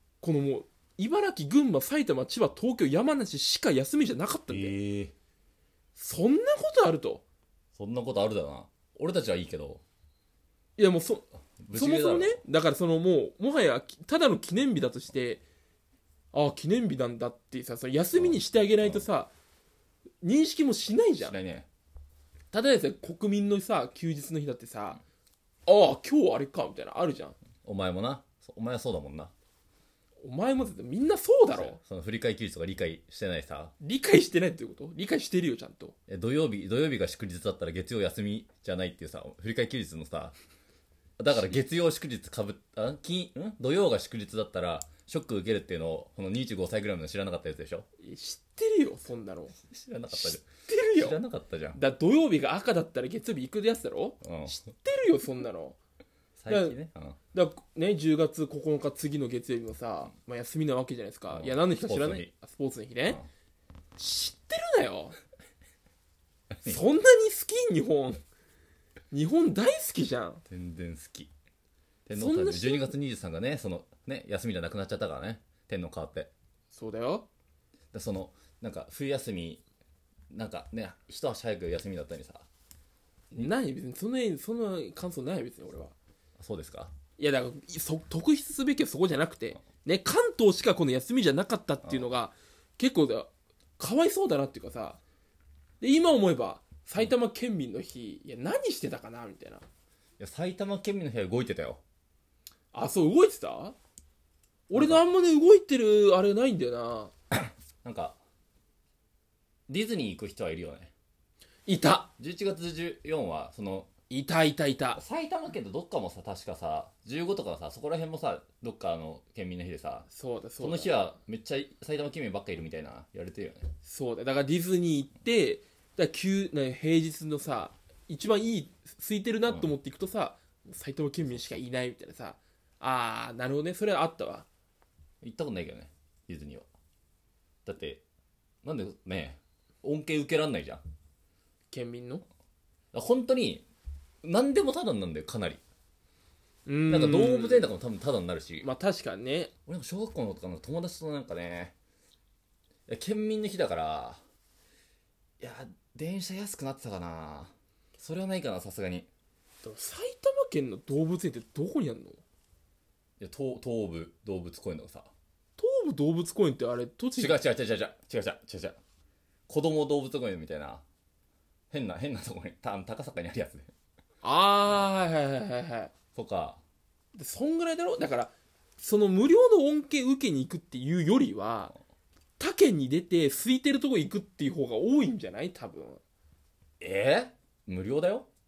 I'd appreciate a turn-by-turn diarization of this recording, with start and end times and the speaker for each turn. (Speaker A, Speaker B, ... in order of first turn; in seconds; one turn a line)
Speaker A: 0.2-4.7
Speaker B: 4.5-5.1
Speaker A: 6.0-7.2
Speaker B: 7.7-9.8
Speaker A: 10.8-15.4
Speaker B: 11.6-12.4
Speaker A: 16.3-19.3
Speaker B: 18.1-19.1
Speaker A: 20.2-21.4
Speaker B: 21.2-21.7
Speaker A: 22.5-25.0
Speaker A: 25.6-27.4
Speaker B: 27.6-29.3
Speaker A: 30.2-31.8
Speaker B: 31.5-33.7
Speaker A: 33.8-35.9
Speaker B: 36.1-40.3
Speaker B: 41.2-47.9
Speaker A: 48.0-49.5
Speaker B: 49.6-51.8
Speaker A: 50.1-51.2
Speaker A: 51.7-55.8
Speaker B: 54.2-54.6
Speaker B: 56.4-57.2
Speaker A: 56.5-56.8
Speaker A: 57.3-63.2
Speaker B: 61.3-62.3
Speaker A: 64.0-65.2
Speaker B: 66.5-66.8
Speaker A: 66.7-68.2
Speaker A: 69.1-70.4
Speaker B: 70.5-71.3
Speaker B: 72.0-76.3
Speaker A: 72.1-72.9
Speaker A: 76.7-77.2
Speaker B: 77.9-79.6
Speaker B: 80.3-82.4
Speaker A: 83.3-85.9
Speaker B: 86.4-86.9
Speaker A: 87.2-95.0
Speaker A: 95.8-99.6
Speaker B: 100.2-101.8
Speaker A: 102.7-103.8
Speaker A: 104.7-107.1
Speaker B: 104.7-105.0
Speaker B: 107.8-108.2
Speaker B: 109.7-110.9
Speaker A: 111.7-112.1
Speaker B: 112.2-113.9
Speaker A: 114.1-115.0
Speaker B: 114.9-120.1
Speaker A: 120.1-120.9
Speaker B: 120.6-123.7
Speaker A: 123.8-134.5
Speaker B: 135.2-136.7
Speaker B: 137.7-138.0
Speaker B: 138.6-140.8
Speaker A: 141.7-142.2
Speaker B: 142.9-143.7
Speaker B: 144.2-145.6
Speaker A: 146.7-147.7
Speaker B: 146.9-148.7
Speaker A: 148.6-149.5
Speaker B: 149.7-151.7
Speaker B: 152.9-154.2
Speaker B: 155.4-159.1
Speaker A: 159.6-162.2
Speaker B: 163.2-165.1
Speaker A: 165.6-167.4
Speaker B: 167.2-168.8
Speaker B: 169.5-170.8
Speaker B: 171.7-173.7
Speaker A: 174.2-175.9
Speaker B: 176.1-176.6
Speaker A: 177.1-181.7
Speaker A: 182.4-186.0
Speaker B: 186.8-188.3